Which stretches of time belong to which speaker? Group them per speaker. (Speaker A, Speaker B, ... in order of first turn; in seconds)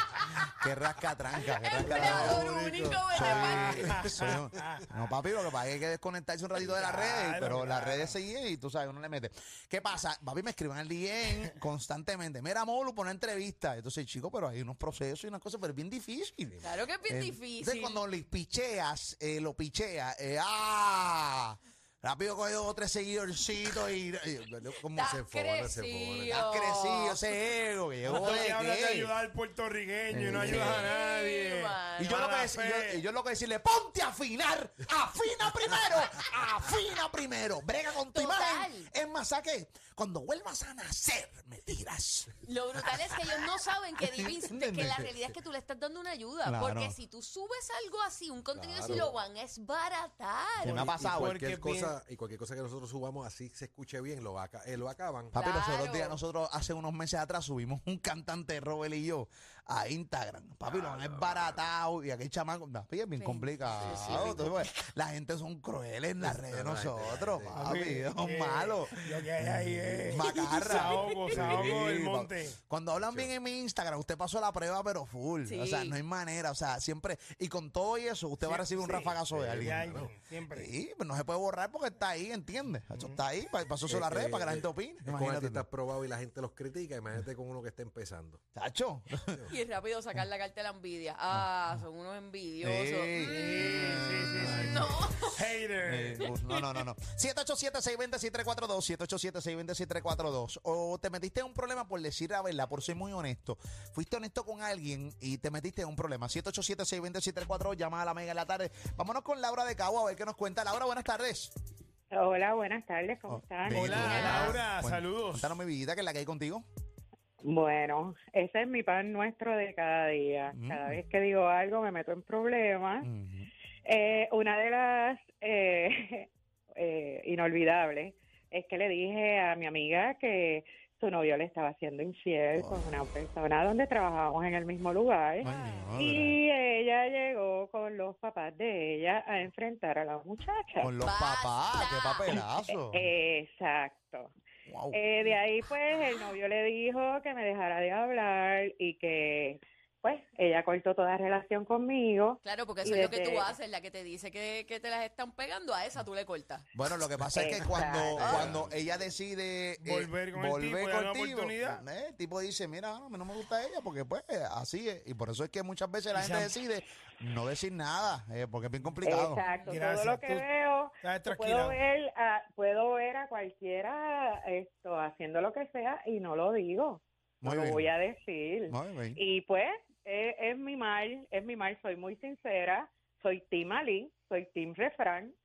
Speaker A: 0.6-2.5, 3.1-25.1, 26.3-29.1, 30.1-30.9, 32.0-42.3, 44.0-45.1, 46.4-47.0, 50.6-51.4, 55.3-85.7, 88.5-89.2, 91.3-91.8, 92.6-95.1, 95.8-111.5, 113.3-116.6, 120.5-121.0, 123.0-123.5, 132.5-132.8, 135.4-136.4, 140.8-143.1, 144.7-145.1, 156.7-169.4, 177.4-177.9, 178.7-179.2
Speaker B: 1.6-3.9, 16.6-18.0, 24.9-27.2, 30.4-32.2, 38.1-38.9, 42.4-50.9, 55.3-56.2, 63.1-64.5, 70.2-71.3, 75.4-76.0, 89.5-95.3, 96.2-96.8, 113.9-114.6, 141.0-142.5, 152.4-156.7, 169.4-169.8
Speaker C: 1.8-3.8, 25.0-26.4, 48.5-49.1, 51.0-55.3, 60.6-61.7, 63.7-64.5, 66.2-67.7, 72.9-73.3, 79.3-80.1, 83.9-88.4, 158.2-158.7
Speaker D: 3.9-4.8, 6.6-8.2, 28.1-33.0, 50.6-51.9, 67.5-72.6, 78.4-80.7, 82.9-83.2, 93.2-96.2, 113.7-115.5, 159.8-161.8, 166.1-166.5, 169.7-170.5, 171.0-171.8
Speaker E: 112.1-114.4, 117.4-123.1, 123.8-126.3, 126.8-140.9, 142.9-144.3, 144.9-153.5, 157.3-158.5, 169.0-185.3